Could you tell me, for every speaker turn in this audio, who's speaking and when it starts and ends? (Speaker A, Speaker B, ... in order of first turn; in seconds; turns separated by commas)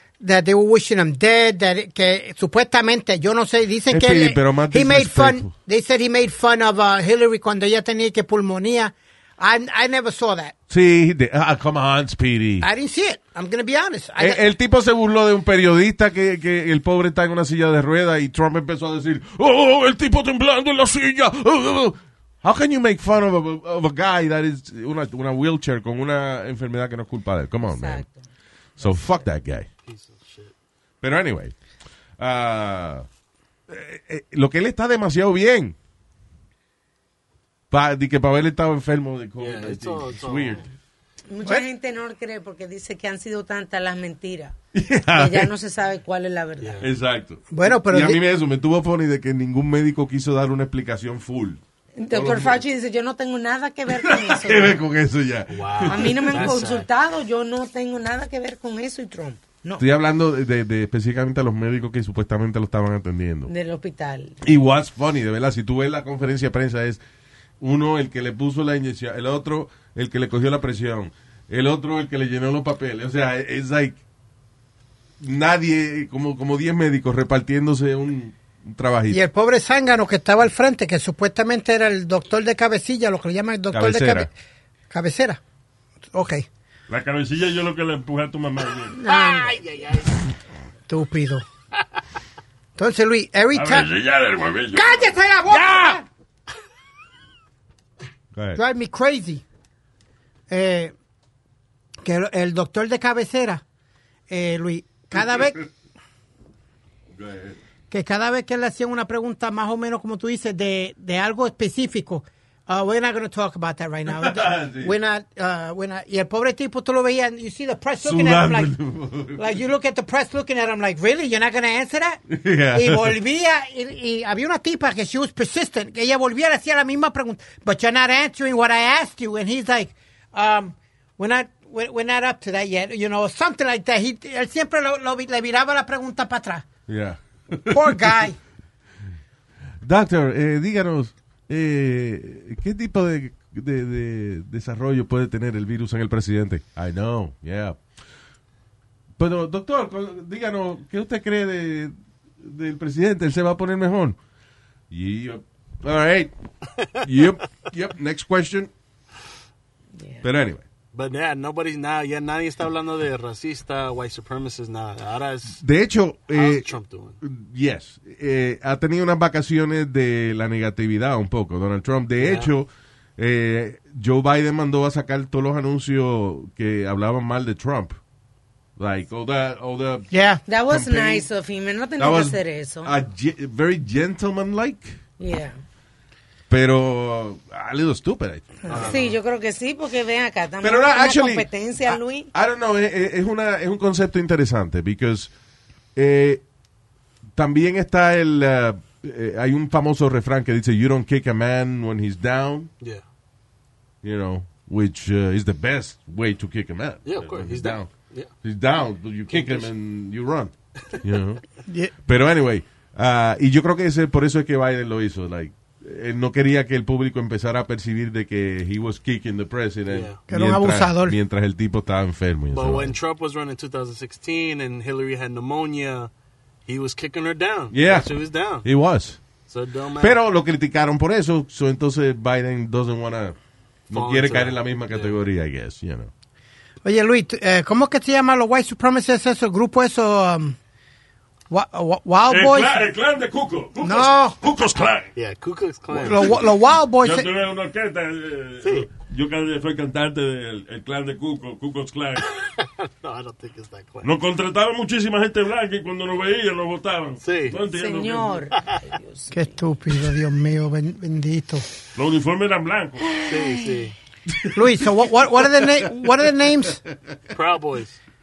Speaker A: 0.2-10.6, Speaker B: 3.9-5.5, Speaker B: 10.7-12.7, Speaker A: 12.6-14.4, Speaker B: 14.2-28.1, Speaker C: 27.7-28.3, Speaker B: 28.8-29.7, Speaker C: 28.8-29.1, Speaker D: 29.8-30.5, Speaker B: 31.0-31.5, Speaker B: 32.2-33.1, Speaker B: 33.7-35.8, Speaker B: 37.7-40.6, Speaker D: 39.4-40.6, Speaker C: 41.3-44.5, Speaker B: 44.7-45.5, Speaker C: 45.1-46.8, Speaker D: 46.6-46.9, Speaker B: 46.8-52.6, Speaker A: 47.5-48.2, Speaker C: 52.0-54.8, Speaker B: 53.9-56.5, Speaker D: 55.5-56.9, Speaker C: 55.9-59.8, Speaker B: 59.8-63.5, Speaker C: 63.5-64.4, Speaker B: 64.4-67.0, Speaker B: 67.6-74.0, Speaker B: 75.2-79.2, Speaker A: 79.1-84.3, Speaker B: 83.7-84.3, Speaker A: 84.9-85.4, Speaker A: 86.1-86.5, Speaker E: 86.9-89.0, Speaker C: 89.0-89.5, Speaker D: 89.0-90.2, Speaker A: 90.9-91.4, Speaker A: 92.8-93.9, Speaker E: 93.5-95.1, Speaker A: 94.7-96.0, Speaker B: 95.5-96.0, Speaker B: 98.3-98.6, Speaker A: 98.5-99.4, Speaker A: 100.5-100.9, Speaker A: 102.0-103.6, Speaker A: 104.3-105.7, Speaker B: 107.2-107.5, Speaker A: 107.9-118.7, Speaker B: 114.1-115.0, Speaker B: 118.0-119.6, Speaker A: 119.4-122.2, Speaker B: 122.3-123.2, Speaker A: 122.7-136.7, Speaker B: 136.9-138.2, Speaker A: 137.7-138.4, Speaker B: 139.8-147.8, Speaker B: 149.2-154.2, Speaker B: 154.9-156.3, Speaker B: 156.9-158.7, Speaker C: 159.9-160.2, Speaker B: 160.2-160.6, Speaker D: 160.9-165.6, Speaker B: 165.5-166.7, Speaker D: 166.3-167.2, Speaker B: 167.2-178.0, Speaker D: 172.2-172.5, Speaker B: 178.8-180.1, Speaker A: 180.1-180.4, Speaker C: 180.5-182.9, Speaker B: 180.7-181.3, Speaker B: 182.0-185.0, Speaker C: 185.2-185.6, Speaker B: 186.5-188.9, Speaker D: 188.7-189.2, Speaker C: 188.8-192.3, Speaker B: 190.6-195.3, Speaker B: 195.9-196.4, Speaker B: 197.3-202.7, Speaker B: 204.0-207.9, Speaker D: 207.1-208.3, Speaker B: 208.4-211.4, Speaker D: 209.3-209.7, Speaker A: 211.7-211.9, Speaker B: 212.0-222.9, Speaker D: 219.9-220.2, Speaker A: 220.3-221.2, Speaker D: 222.5-226.1, Speaker D: 226.7-228.7, Speaker B: 227.7-229.2, Speaker D: 229.5-230.2, Speaker B: 230.0-233.4, Speaker D: 233.9-235.2, Speaker B: 233.9-236.1, Speaker A: 236.8-240.6, Speaker A: 241.5-242.8, Speaker E: 242.3-245.1, Speaker A: 243.8-244.4, Speaker D: 245.2-246.4, Speaker A: 246.0-247.3, Speaker E: 246.0-246.4, Speaker E: 247.0-252.3, Speaker D: 248.6-248.9, Speaker D: 252.3-254.1, Speaker E: 254.0-258.4, Speaker D: 257.2-257.6, Speaker C: 257.7-259.6, Speaker A: 259.3-261.6, Speaker E: 261.9-263.2, Speaker D: 263.2-263.9, Speaker B: 264.3-266.9, Speaker A: 264.5-266.8, Speaker D: 267.3-268.0